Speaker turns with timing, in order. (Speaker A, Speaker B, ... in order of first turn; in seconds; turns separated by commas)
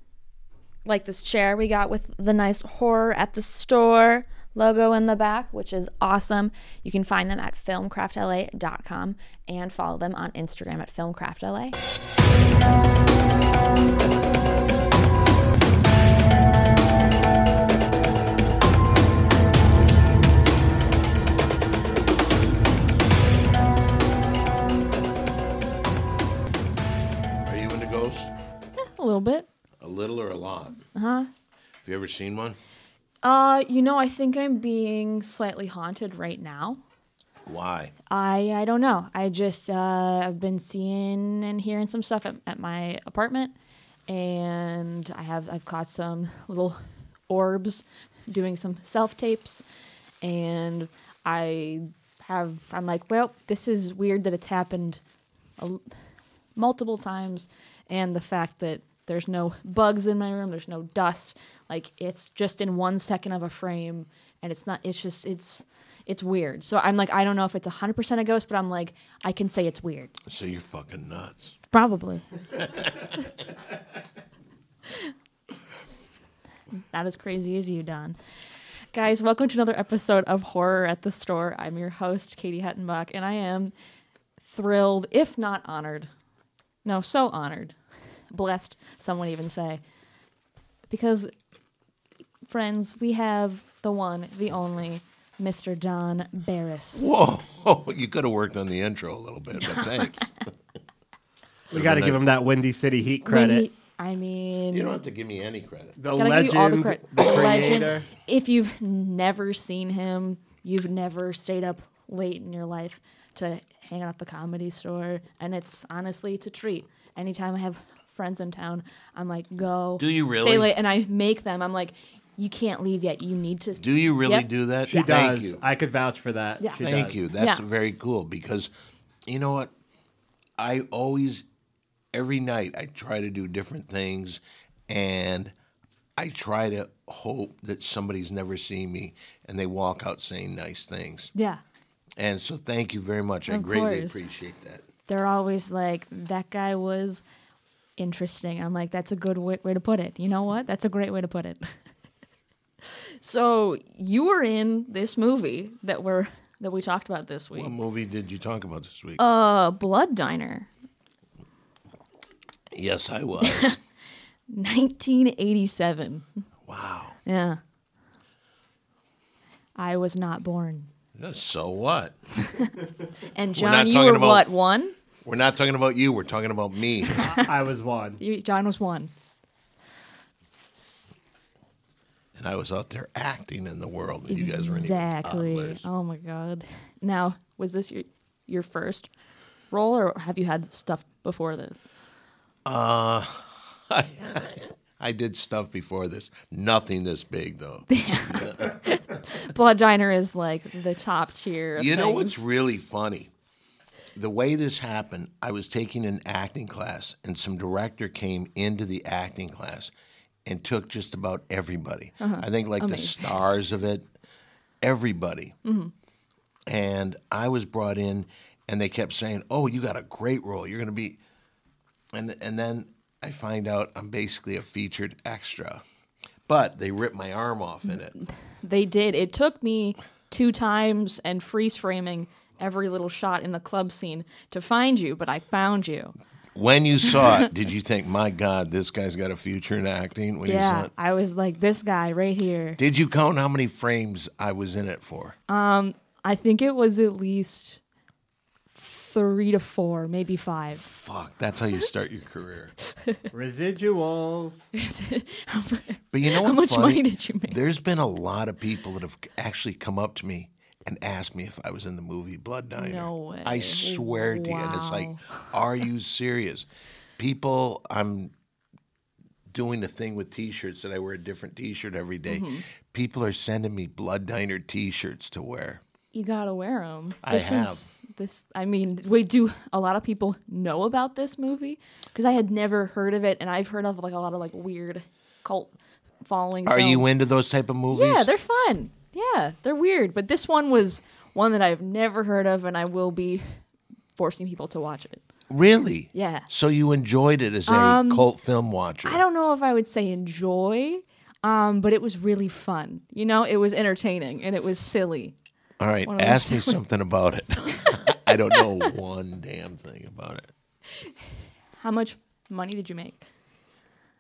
Speaker A: 0.8-11.8, Speaker B: 27.4-28.3, Speaker A: 28.8-29.5, Speaker B: 29.8-30.8, Speaker A: 30.9-31.3, Speaker B: 31.8-32.6, Speaker A: 33.2-36.8, Speaker B: 37.4-37.9, Speaker A: 38.1-43.5, Speaker A: 44.1-49.6, Speaker A: 50.2-55.0, Speaker A: 55.6-55.9, Speaker A: 56.5-70.2, Speaker B: 70.2-71.5, Speaker A: 71.7-72.2, Speaker B: 72.6-72.9, Speaker A: 76.9-78.2, Speaker A: 78.9-83.7, Speaker A: 84.4-86.1, Speaker A: 86.8-87.8, Speaker A: 88.3-89.8, Speaker A: 90.9-91.3, Speaker A: 92.5-97.2, Speaker B: 96.9-100.4, Speaker A: 99.6-100.0, Speaker B: 101.7-102.2, Speaker C: 101.7-103.7, Speaker A: 103.2-104.9, Speaker B: 104.7-106.0, Speaker C: 106.0-108.1, Speaker A: 106.2-124.5, Speaker B: 120.0-120.7, Speaker B: 123.8-125.6, Speaker C: 124.9-127.2, Speaker B: 126.8-128.7, Speaker A: 127.3-127.6, Speaker B: 129.2-129.7, Speaker B: 130.6-131.4, Speaker B: 132.1-135.5, Speaker B: 136.2-141.3, Speaker A: 141.3-141.6, Speaker B: 142.2-144.8, Speaker A: 143.5-144.2, Speaker A: 145.1-147.2, Speaker A: 148.0-151.7, Speaker A: 153.2-157.7, Speaker B: 157.5-159.2, Speaker A: 159.2-160.7, Speaker B: 162.7-163.8, Speaker A: 163.4-163.8, Speaker A: 164.5-166.3, Speaker B: 166.7-167.2, Speaker A: 167.2-167.6, Speaker A: 169.8-170.9, Speaker B: 171.2-172.2, Speaker A: 172.4-172.7, Speaker A: 173.2-174.9, Speaker B: 173.5-174.5, Speaker B: 175.2-177.2, Speaker A: 177.2-177.5, Speaker C: 177.3-178.2, Speaker A: 178.2-179.1, Speaker B: 182.3-185.9, Speaker A: 184.3-189.1, Speaker A: 189.7-191.9, Speaker B: 192.6-198.9, Speaker A: 197.9-202.4, Speaker B: 201.8-203.3, Speaker B: 204.1-209.9, Speaker B: 210.4-214.1, Speaker A: 212.2-213.3, Speaker B: 214.8-215.6, Speaker A: 215.6-215.9, Speaker B: 216.7-221.2, Speaker B: 222.1-225.8, Speaker B: 226.4-228.1, Speaker A: 228.6-236.1, Speaker B: 236.5-240.9, Speaker A: 240.4-242.8, Speaker B: 242.8-245.3, Speaker A: 245.5-247.8, Speaker A: 248.7-250.8, Speaker B: 250.8-252.7, Speaker C: 253.3-254.6, Speaker A: 254.7-257.6, Speaker B: 256.1-268.3, Speaker A: 262.8-265.5, Speaker B: 269.5-275.8, Speaker A: 272.3-272.6, Speaker A: 276.1-287.1, Speaker B: 277.2-277.8, Speaker B: 286.6-288.3, Speaker A: 287.9-293.6, Speaker A: 294.1-295.2, Speaker B: 295.5-299.2, Speaker A: 296.1-296.5, Speaker A: 297.6-298.3, Speaker A: 299.0-305.3, Speaker B: 305.8-310.5, Speaker A: 306.1-306.8, Speaker A: 307.6-308.9, Speaker A: 311.8-313.2